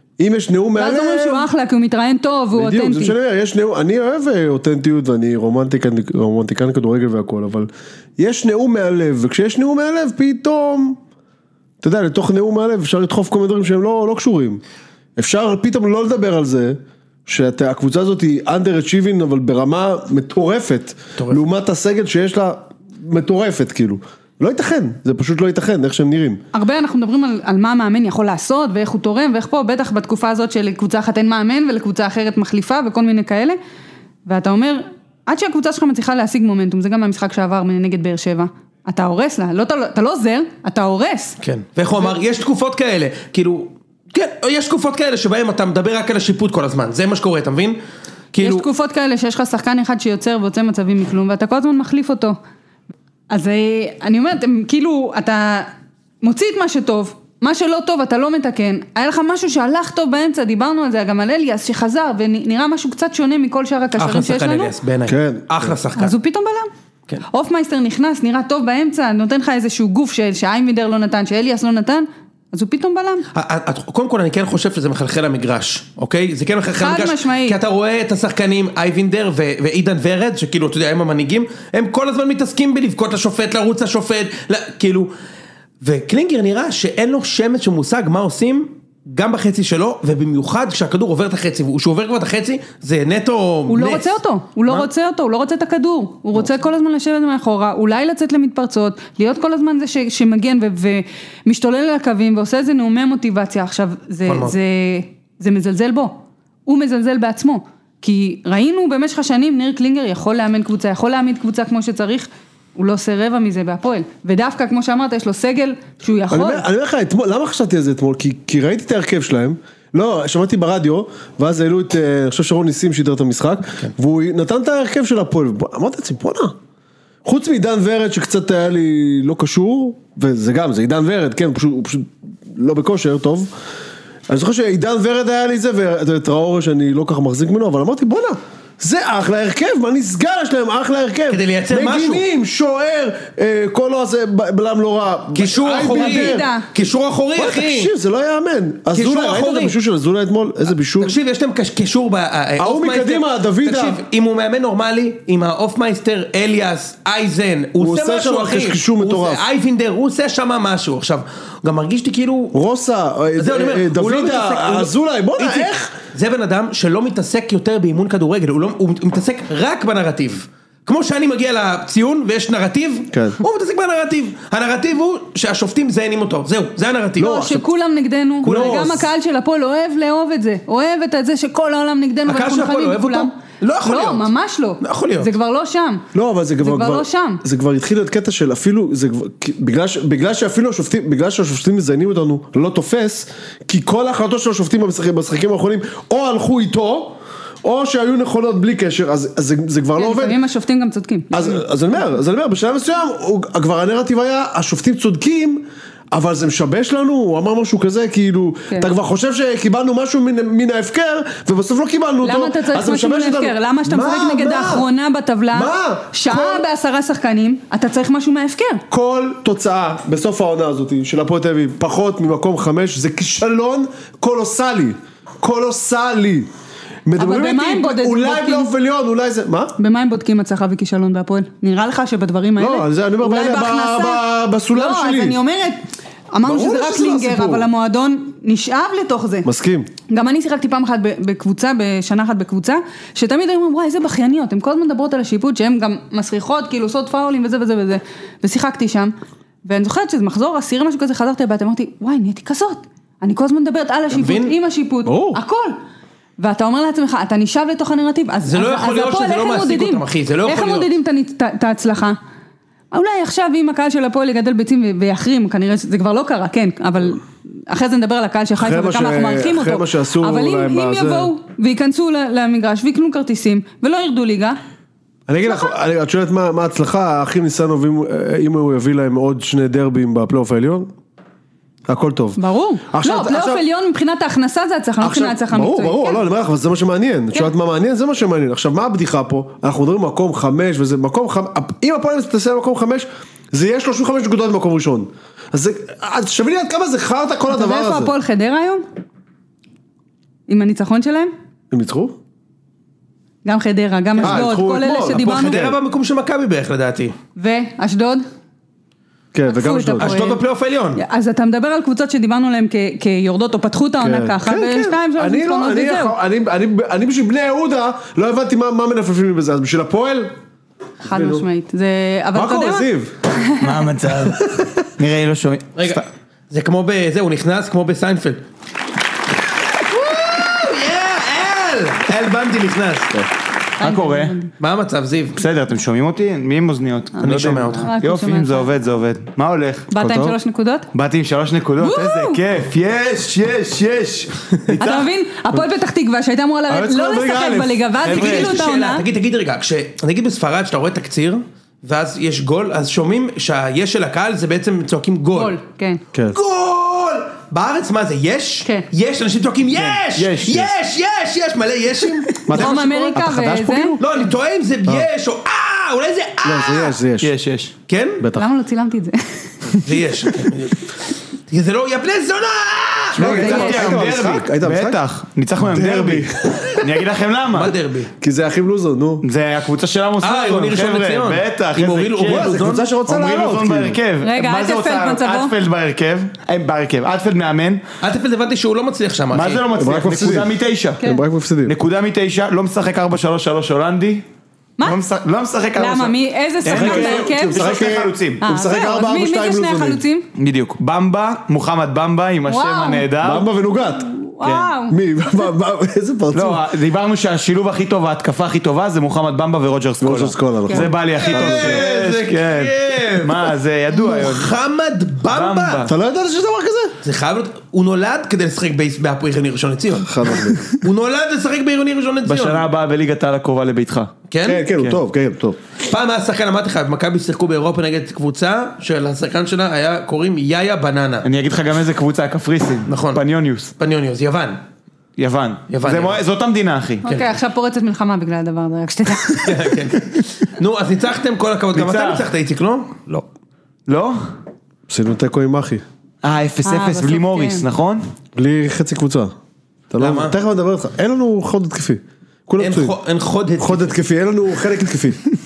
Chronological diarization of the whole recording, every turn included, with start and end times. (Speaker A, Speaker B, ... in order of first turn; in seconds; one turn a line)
Speaker A: 0.2-1.5
Speaker B: 0.8-3.1
Speaker A: 2.5-11.0
Speaker A: 11.8-14.6
Speaker A: 15.2-26.4
Speaker C: 21.2-21.5
Speaker B: 26.5-33.6
Speaker B: 34.3-41.4
Speaker C: 41.4-47.8
Speaker C: 48.3-48.7
Speaker B: 48.4-52.4
Speaker B: 53.3-55.7
Speaker B: 56.2-64.7
Speaker C: 64.0-66.2
Speaker A: 65.1-65.7
Speaker B: 66.0-66.7
Speaker B: 67.3-73.3
Speaker C: 73.3-85.1
Speaker B: 76.8-77.6
Speaker C: 85.8-94.1
Speaker B: 93.7-116.7
Speaker C: 104.3-104.6
Speaker A: 116.3-126.6
Speaker A: 127.2-133.5
Speaker A: 134.3-146.5
Speaker C: 141.3-142.2
Speaker C: 145.3-147.9
Speaker B: 145.7-146.7
Speaker A: 147.4-151.2
Speaker C: 148.9-149.8
Speaker C: 151.0-162.6
Speaker A: 152.6-154.0
Speaker A: 157.8-159.4
Speaker A: 162.5-165.9
Speaker C: 163.4-177.5
Speaker A: 173.1-173.4
Speaker B: 177.2-186.1
Speaker A: 177.2-177.7
Speaker C: 178.4-179.1
Speaker A: 178.4-179.0
Speaker C: 182.3-184.3
Speaker C: 184.8-185.3
Speaker A: 186.1-200.4
Speaker B: 186.6-187.4
Speaker B: 200.0-201.6
Speaker A: 201.3-214.9
Speaker B: 212.2-218.8
Speaker A: 215.5-216.7
Speaker A: 218.9-226.5
Speaker A: 227.1-229.7
Speaker B: 227.2-228.7
Speaker B: 229.8-239.5
Speaker A: 232.6-235.4
Speaker A: 236.4-237.7
Speaker A: 239.4-239.9
Speaker B: 240.1-249.1
Speaker B: 249.7-255.8
Speaker C: 254.1-254.5
Speaker A: 255.1-255.4
Speaker B: 256.4-262.2
Speaker C: 258.4-260.9
Speaker B: 262.9-274.6
Speaker A: 268.6-271.3
Speaker A: 275.3-280.9
Speaker A: 281.9-282.4
Speaker B: 282.4-286.2
Speaker A: 282.9-283.6
Speaker A: 285.0-298.1
Speaker B: 297.5-298.8
Speaker B: 300.5-301.3
Speaker A: 301.7-302.2
Speaker B: 303.4-305.7
Speaker A: 304.2-305.7
Speaker C: 305.1-307.2
Speaker B: 307.4-308.2
Speaker A: 309.3-310.1
Speaker B: 309.5-310.4
Speaker C: 310.0-311.0
Speaker B: 311.0-316.2
Speaker A: 314.0-320.3
Speaker B: 321.0-323.8
Speaker A: 321.1-321.4
Speaker A: 322.3-323.1
Speaker D: 323.6-326.0
Speaker C: 325.8-328.4
Speaker C: 329.9-333.1
Speaker B: 333.8-334.5
Speaker D: 333.8-334.3
Speaker C: 334.6-335.4
Speaker D: 335.4-339.9
Speaker B: 337.2-338.7
Speaker C: 337.2-337.9
Speaker B: 339.9-340.9
Speaker A: 340.0-340.4
Speaker D: 340.9-345.1
Speaker B: 341.8-342.4
Speaker B: 344.8-349.1
Speaker A: 346.7-348.1
Speaker D: 348.0-348.6
Speaker C: 348.0-355.6
Speaker B: 355.3-356.0
Speaker C: 356.3-362.4
Speaker D: 359.7-360.7
Speaker D: 362.4-364.0
Speaker B: 362.5-364.0
Speaker C: 364.0-367.0
Speaker A: 366.4-367.3
Speaker D: 367.2-367.7
Speaker C: 367.9-368.2
Speaker A: 368.2-368.5
Speaker B: 368.3-369.5
Speaker C: 369.8-370.9
Speaker C: 371.5-374.2
Speaker A: 373.1-375.0
Speaker D: 373.2-377.7
Speaker B: 373.3-373.9
Speaker A: 375.6-377.0
Speaker C: 377.5-378.1
Speaker A: 378.2-379.2
Speaker D: 379.2-387.8
Speaker C: 380.2-382.9
Speaker A: 382.2-384.0
Speaker B: 384.2-385.6
Speaker C: 388.0-389.7
Speaker D: 389.3-391.0
Speaker A: 389.7-391.8
Speaker D: 391.7-394.2
Speaker D: 394.8-398.4
Speaker B: 395.8-397.8
Speaker A: 396.7-400.0
Speaker B: 398.4-400.3
Speaker D: 400.4-403.5
Speaker B: 402.5-403.1
Speaker A: 403.2-404.1
Speaker B: 404.2-405.0
Speaker D: 404.4-404.7
Speaker A: 404.9-406.6
Speaker D: 406.3-414.5
Speaker A: 410.0-411.9
Speaker C: 411.1-415.9
Speaker D: 415.3-415.9
Speaker A: 415.8-416.9
Speaker C: 417.0-422.6
Speaker A: 420.0-420.7
Speaker D: 422.3-424.1
Speaker C: 424.3-424.6
Speaker A: 424.4-425.6
Speaker C: 425.8-431.3
Speaker D: 431.2-433.7
Speaker C: 432.9-433.2
Speaker C: 433.8-434.6
Speaker D: 435.2-437.0
Speaker C: 435.7-436.2
Speaker B: 437.0-439.8
Speaker C: 439.4-443.3
Speaker D: 441.7-442.3
Speaker D: 443.9-444.3
Speaker A: 444.9-445.8
Speaker D: 446.2-448.0
Speaker B: 446.6-447.6
Speaker A: 448.3-449.3
Speaker A: 449.9-452.9
Speaker C: 450.0-450.4
Speaker C: 452.6-454.0
Speaker A: 453.6-455.2